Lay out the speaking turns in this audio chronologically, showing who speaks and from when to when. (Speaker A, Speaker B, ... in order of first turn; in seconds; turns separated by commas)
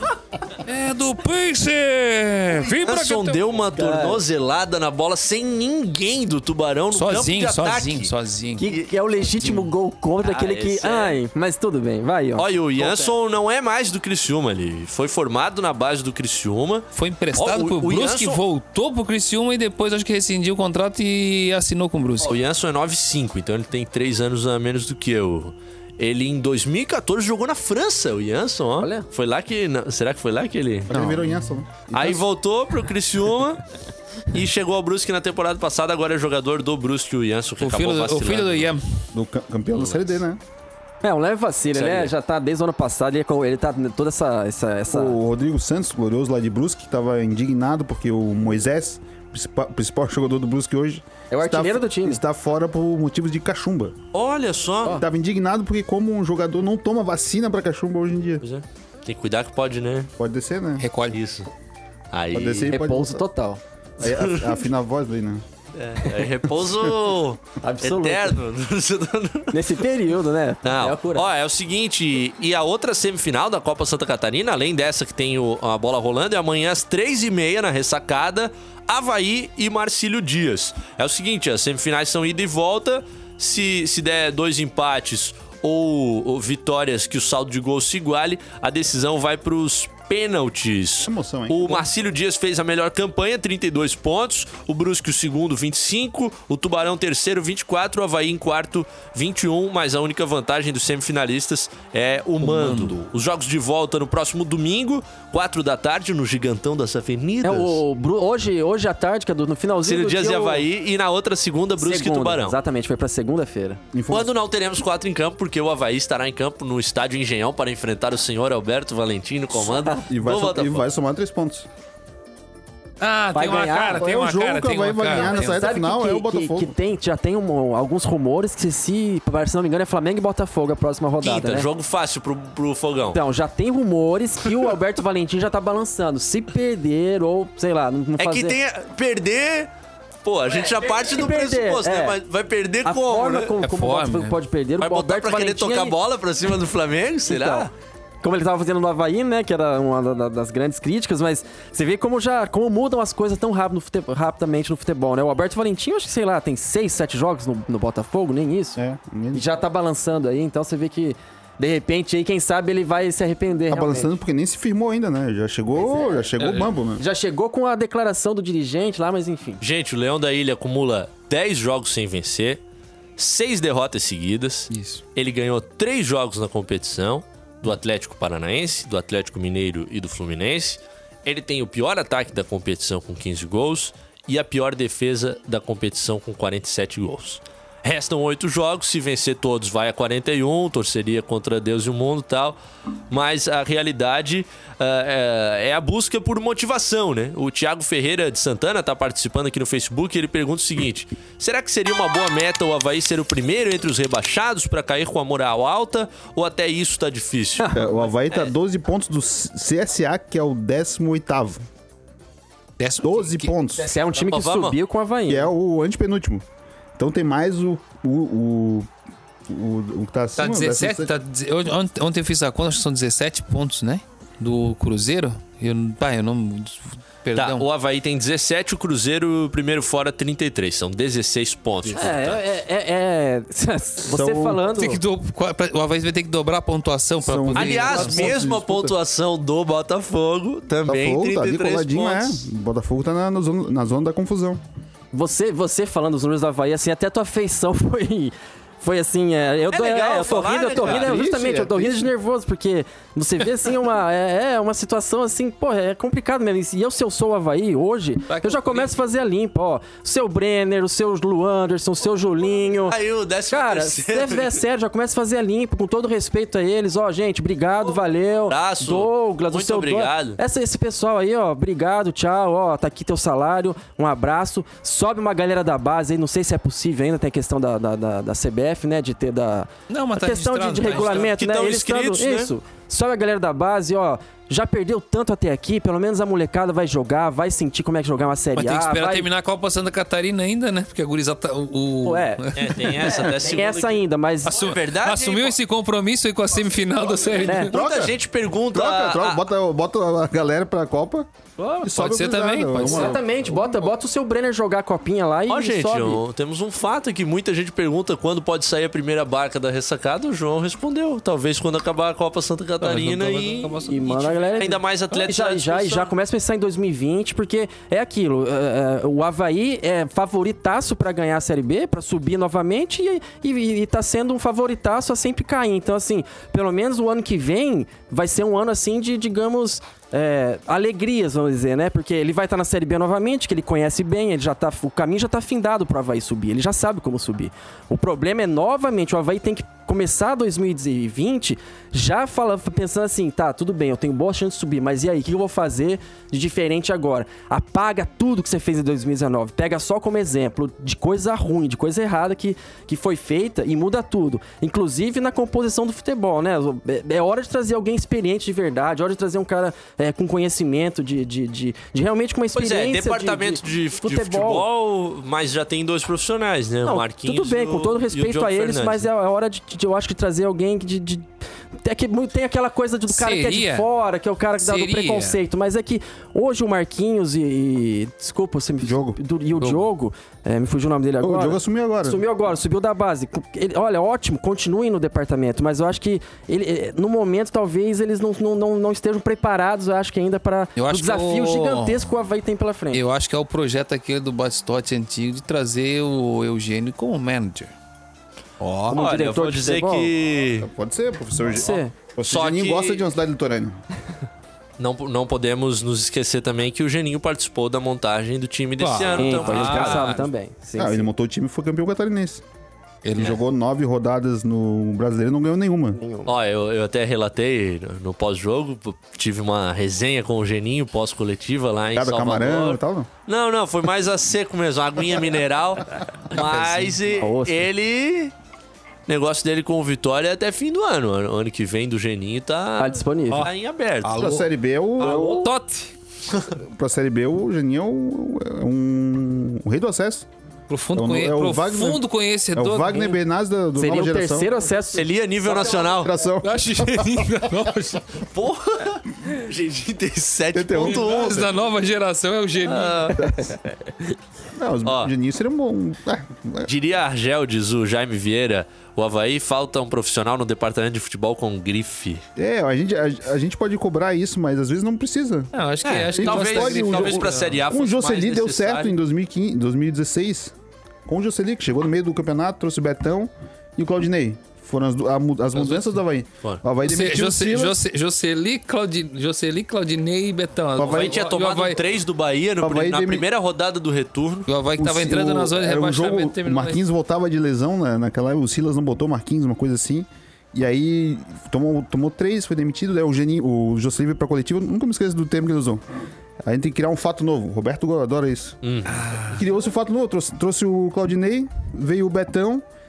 Speaker A: 0.6-3.4, Speaker B: 2.6-8.1, Speaker C: 3.8-4.2, Speaker A: 6.9-8.7, Speaker C: 8.6-13.1, Speaker B: 10.2-11.2, Speaker B: 12.4-18.4, Speaker A: 16.9-22.3, Speaker B: 22.2-30.9, Speaker C: 28.8-29.1, Speaker D: 30.9-32.2, Speaker B: 31.9-33.6, Speaker B: 34.3-38.7, Speaker A: 37.6-38.8, Speaker D: 39.1-40.4, Speaker C: 41.0-45.2, Speaker B: 41.7-42.1, Speaker D: 44.9-53.9, Speaker C: 51.3-52.2, Speaker B: 54.1-55.0, Speaker D: 54.9-58.4, Speaker B: 58.4-60.1, Speaker D: 60.2-60.9, Speaker A: 60.8-61.2, Speaker B: 61.1-61.5, Speaker B: 62.1-62.7, Speaker D: 62.3-63.2, Speaker C: 62.7-63.6, Speaker D: 64.0-65.4, Speaker B: 64.0-64.6, Speaker B: 65.8-69.5, Speaker C: 67.6-68.4, Speaker C: 69.5-71.2, Speaker B: 70.6-107.8, Speaker D: 91.0-91.9, Speaker A: 102.4-103.0, Speaker C: 107.4-110.6, Speaker B: 109.8-112.6, Speaker C: 111.8-113.8, Speaker D: 113.9-114.3, Speaker B: 114.1-120.8, Speaker D: 120.0-121.7, Speaker A: 123.0-125.6, Speaker C: 123.3-124.1, Speaker D: 124.0-126.7, Speaker C: 125.2-131.7, Speaker B: 131.2-133.2, Speaker C: 133.1-138.5, Speaker B: 138.2-139.7, Speaker B: 140.2-143.5, Speaker C: 140.9-142.2, Speaker C: 142.8-145.9, Speaker A: 143.6-144.4, Speaker B: 144.8-147.7, Speaker C: 147.3-147.7, Speaker C: 148.2-158.8, Speaker D: 158.8-159.5, Speaker C: 159.3-164.1, Speaker D: 163.7-167.0, Speaker C: 165.8-166.2, Speaker A: 166.4-166.7, Speaker C: 167.0-169.6, Speaker B: 169.6-172.6, Speaker B: 173.2-192.6, Speaker A: 174.7-175.0, Speaker B: 193.1-207.7, Speaker D: 207.7-211.6, Speaker A: 212.8-213.5, Speaker D: 213.0-213.9, Speaker C: 213.8-215.5, Speaker B: 214.3-214.8, Speaker D: 215.3-216.4, Speaker D: 216.9-218.9, Speaker D: 219.5-221.1, Speaker A: 220.4-227.6, Speaker B: 227.3-232.4, Speaker C: 231.9-235.0, Speaker D: 234.1-234.6, Speaker A: 234.7-238.3, Speaker D: 237.2-238.9, Speaker B: 237.5-242.4, Speaker D: 240.8-244.6, Speaker C: 245.1-262.9, Speaker B: 249.7-251.2, Speaker D: 250.8-252.1, Speaker A: 258.3-258.9, Speaker B: 262.9-264.6, Speaker C: 263.5-289.3, Speaker B: 268.5-270.4, Speaker A: 279.9-281.3, Speaker B: 280.9-282.5, Speaker A: 288.6-293.3, Speaker C: 292.0-292.5, Speaker B: 292.5-295.6, Speaker C: 293.1-294.6, Speaker A: 294.5-297.8, Speaker C: 297.4-297.7, Speaker B: 297.7-299.4, Speaker D: 297.7-298.2, Speaker D: 298.7-301.3, Speaker A: 301.6-303.2, Speaker D: 301.8-303.6, Speaker C: 302.8-306.2, Speaker B: 305.5-313.7, Speaker A: 312.8-314.6, Speaker C: 313.9-364.6, Speaker B: 314.6-316.1, Speaker B: 362.5-369.1, Speaker C: 366.8-371.3, Speaker C: 371.8-393.0, Speaker A: 373.1-373.9, Speaker A: 374.6-375.4, Speaker D: 378.8-379.2, Speaker D: 381.2-382.2, Speaker A: 390.8-392.0, Speaker A: 392.9-397.7, Speaker A: 398.6-399.0, Speaker C: 398.9-400.1, Speaker B: 398.9-400.7, Speaker D: 400.6-403.8, Speaker C: 401.5-401.9, Speaker B: 402.2-403.1, Speaker B: 404.8-410.2, Speaker A: 408.8-410.3, Speaker C: 409.2-411.1, Speaker D: 410.8-412.4, Speaker A: 413.0-413.3, Speaker D: 413.1-416.0, Speaker C: 416.0-416.3, Speaker B: 416.2-428.3, Speaker D: 421.9-423.1, Speaker C: 427.2-427.7, Speaker B: 429.1-434.1, Speaker C: 432.8-433.5, Speaker A: 434.0-434.4, Speaker D: 434.1-435.5, Speaker A: 435.0-435.9, Speaker D: 436.6-440.3, Speaker A: 440.7-443.2, Speaker D: 440.9-444.6, Speaker C: 443.8-445.9, Speaker B: 444.9-446.1, Speaker D: 445.7-447.1, Speaker A: 446.4-448.2, Speaker B: 448.3-451.5, Speaker D: 450.5-451.4, Speaker A: 450.8-453.1, Speaker B: 452.6-453.2, Speaker D: 453.2-453.6, Speaker D: 454.5-456.7, Speaker B: 454.8-455.1, Speaker B: 456.6-462.2, Speaker D: 462.4-465.5, Speaker A: 465.5-467.6, Speaker B: 465.8-468.9, Speaker D: 466.1-470.5, Speaker D: 471.1-477.8, Speaker A: 475.6-475.9, Speaker A: 476.9-481.8, Speaker D: 480.8-481.2, Speaker B: 480.8-484.5, Speaker D: 482.6-483.2, Speaker A: 484.5-486.8, Speaker D: 484.8-495.8, Speaker D: 496.4-498.6, Speaker B: 498.6-498.9, Speaker A: 498.9-499.4, Speaker D: 499.3-502.6